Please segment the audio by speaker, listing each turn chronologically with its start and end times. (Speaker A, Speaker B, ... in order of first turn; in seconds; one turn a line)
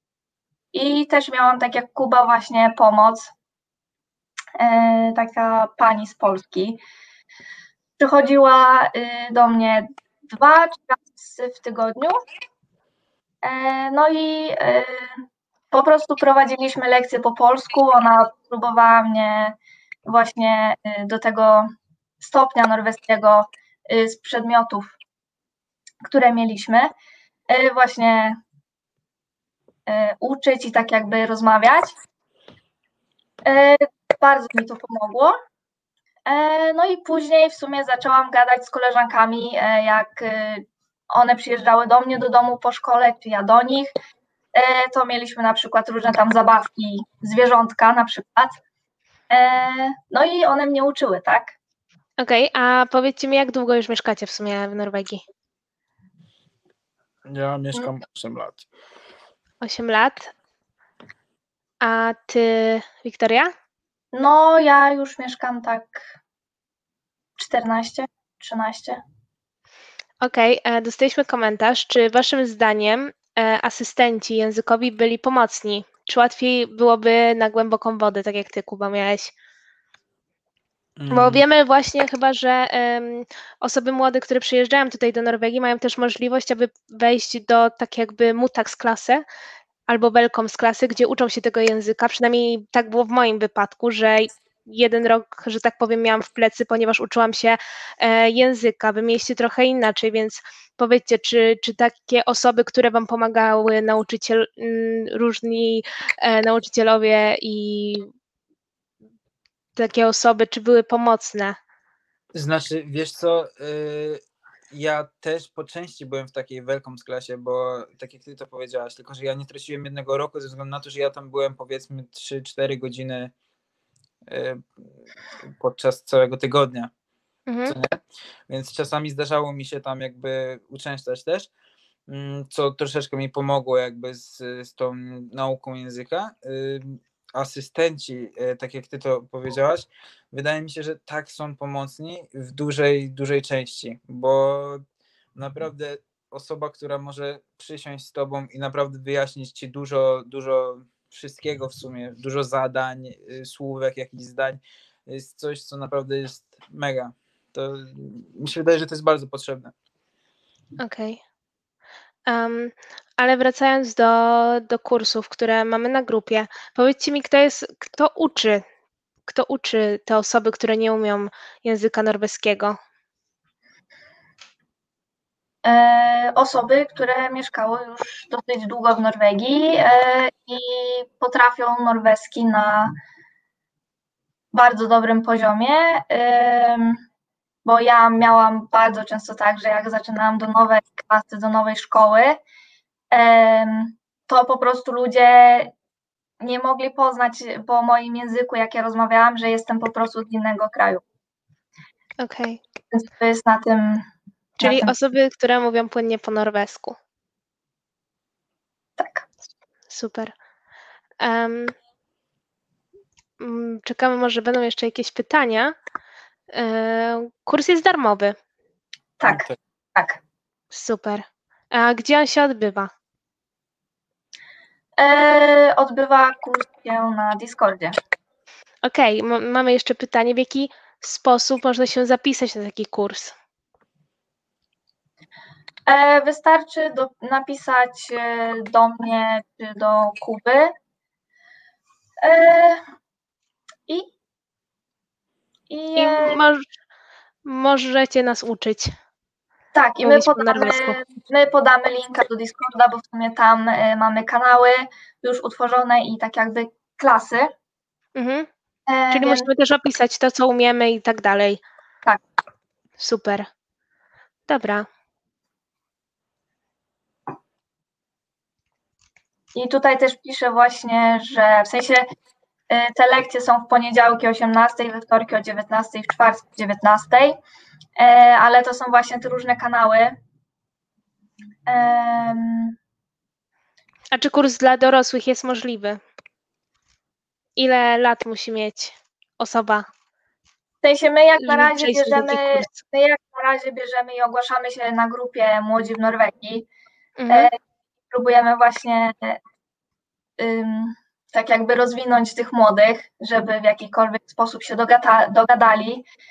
Speaker A: 0.7-3.3
Speaker A: 4.6-6.8
Speaker A: 8.0-12.1
Speaker A: 13.4-15.1
Speaker A: 15.7-21.7
Speaker A: 22.2-24.9
Speaker A: 26.0-26.9
Speaker A: 27.5-28.4
Speaker A: 29.9-31.9
Speaker A: 33.4-35.3
Speaker A: 36.2-43.9
Speaker A: 44.5-48.5
Speaker A: 49.3-51.5
Speaker B: 52.2-55.2
Speaker C: 57.3-58.6
Speaker B: 59.6-60.3
Speaker B: 61.8-63.5
Speaker A: 64.1-66.0
Speaker A: 67.4-69.0
Speaker B: 70.2-79.3
Speaker C: 81.0-81.4
Speaker B: 81.1-89.2
Speaker B: 89.9-108.0
Speaker B: 109.8-111.5
Speaker C: 112.3-123.3
Speaker C: 124.3-124.6
Speaker C: 125.6-126.9
Speaker B: 127.5-127.7
Speaker C: 127.7-128.0
Speaker C: 128.5-131.5
Speaker C: 132.1-144.8
Speaker C: 145.3-159.7
Speaker B: 160.8-161.2
Speaker B: 162.3-168.6
Speaker B: 169.3-172.8
Speaker A: 175.6-182.9
Speaker A: 184.5-187.0
Speaker A: 187.6-192.4
Speaker A: 193.1-195.7
Speaker A: 196.4-201.0
Speaker B: 202.2-202.6
Speaker A: 202.9-204.0
Speaker A: 204.6-204.9
Speaker B: 204.6-206.9
Speaker A: 209.0-209.2
Speaker B: 209.9-210.3
Speaker B: 211.2-211.7
Speaker B: 213.4-215.7
Speaker B: 216.5-218.3
Speaker A: 219.2-220.2
Speaker C: 219.2-219.6
Speaker B: 220.7-222.9
Speaker A: 225.0-227.9
Speaker B: 228.8-233.3
Speaker A: 235.8-240.7
Speaker A: 242.2-242.8
Speaker A: 245.7-246.4
Speaker B: 245.9-246.6
Speaker B: 247.4-248.9
Speaker A: 249.7-257.5
Speaker B: 250.0-251.0
Speaker B: 258.1-258.5
Speaker A: 258.9-259.5
Speaker B: 259.1-261.6
Speaker B: 263.0-263.4
Speaker B: 264.5-264.9
Speaker A: 269.5-272.0
Speaker A: 272.7-277.4
Speaker A: 278.0-280.1
Speaker A: 281.7-282.7
Speaker B: 284.1-286.0
Speaker B: 287.6-289.8
Speaker A: 290.8-296.7
Speaker B: 291.4-292.8
Speaker B: 297.2-297.5
Speaker A: 298.1-299.4
Speaker A: 300.4-306.0